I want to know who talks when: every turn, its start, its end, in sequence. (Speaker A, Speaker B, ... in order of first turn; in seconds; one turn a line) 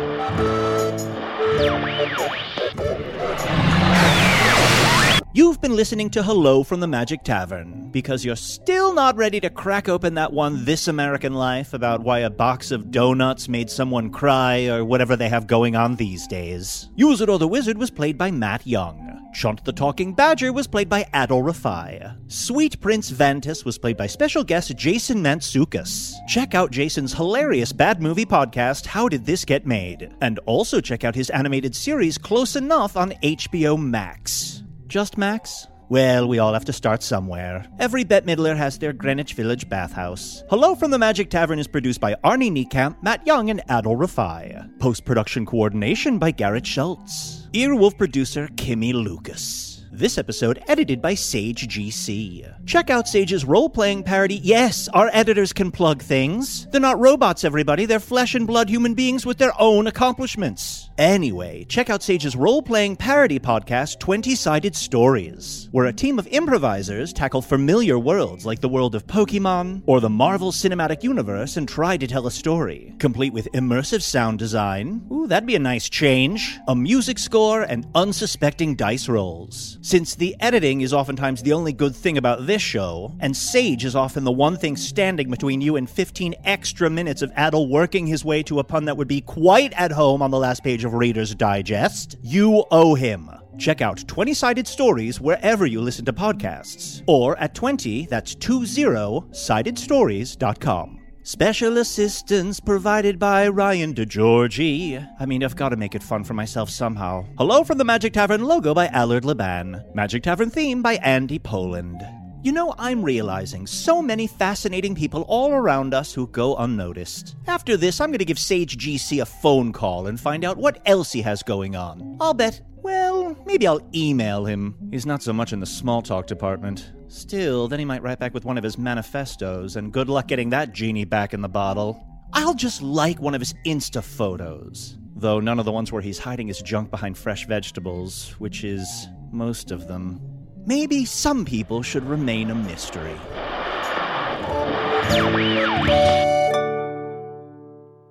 Speaker A: 5.3-143.3